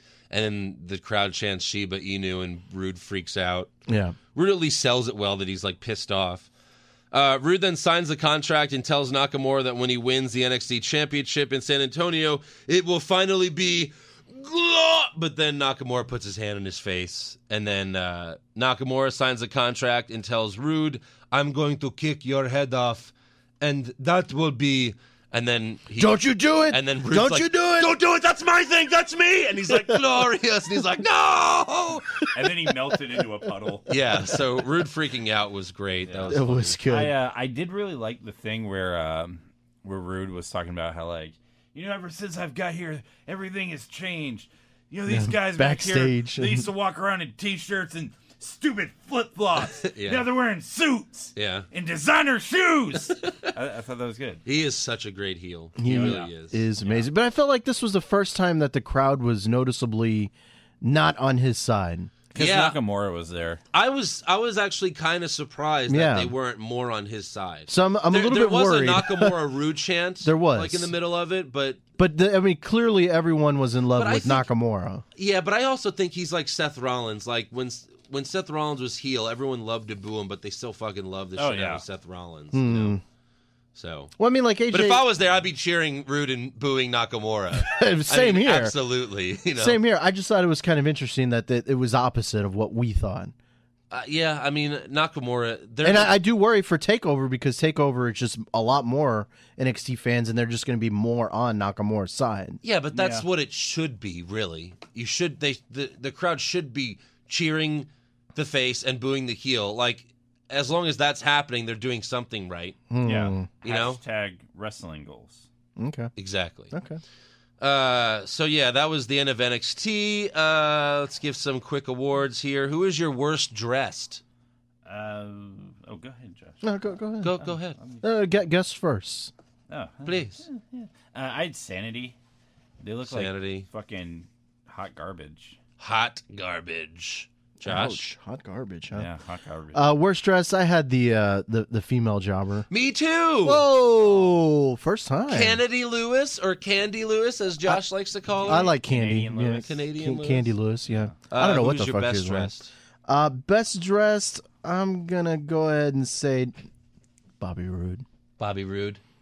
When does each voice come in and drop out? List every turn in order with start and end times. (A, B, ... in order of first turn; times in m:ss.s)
0:00.3-0:03.7 A
0:03.9-0:04.2 B
0:04.3-0:06.5 A
0:07.1-0:32.3 A
0:26.0-0:28.0 B
0:32.3-0:33.9 C
0:33.9-0:36.8 A
0:36.1-0:36.3 C
0:36.3-0:37.2 B
0:36.9-0:54.4 C
0:45.1-0:46.7 B
0:49.8-0:50.3 A
0:51.4-0:51.7 A
0:53.2-0:53.5 A
0:54.5-0:56.6 A
0:55.8-1:02.2 B
0:55.8-0:57.1 C
1:02.4-1:02.8 A
1:02.4-1:03.6 C
1:03.7-1:11.8 A
1:05.9-1:06.3 B
1:07.7-1:09.4 B
1:10.2-1:10.9 B
1:12.0-1:15.0 B
1:14.0-1:14.5 A
1:15.2-1:23.0 A
1:21.4-1:21.8 C
1:22.5-1:23.0 B
1:23.8-1:24.1 A
1:24.2-1:25.0 B
1:24.7-1:29.8 A
1:27.6-1:28.8 B
1:29.6-1:33.3 B
1:33.9-1:36.1 A
1:35.8-1:42.6 B
1:42.6-1:52.8 A
1:42.9-1:43.2 C
1:52.9-1:53.5 B
1:53.0-1:55.5 C
1:53.6-1:54.0 A
1:55.8-1:56.1 B
1:56.2-1:56.7 A
1:56.7-1:57.0 B
1:57.6-2:04.2 A
2:04.9-2:06.6 C
2:06.6-2:07.4 B
2:07.2-2:07.8 A
2:07.4-2:08.0 C
2:08.0-2:09.3 B
2:09.7-2:12.2 C
2:10.1-2:10.4 A
2:12.8-2:15.6 C
2:13.1-2:13.7 A
2:15.8-2:18.0 A
2:17.6-2:19.1 B
2:18.9-2:19.8 C
2:19.7-2:22.7 B
2:22.7-2:23.7 A
2:23.4-2:25.6 B
2:25.3-2:28.7 A
2:28.3-2:29.7 C
2:28.5-2:32.5 B
2:29.4-2:30.5 A
2:30.9-2:31.1 C
2:31.3-2:32.7 A
2:33.1-2:36.6 B
2:37.4-2:38.0 B
2:38.4-2:39.0 A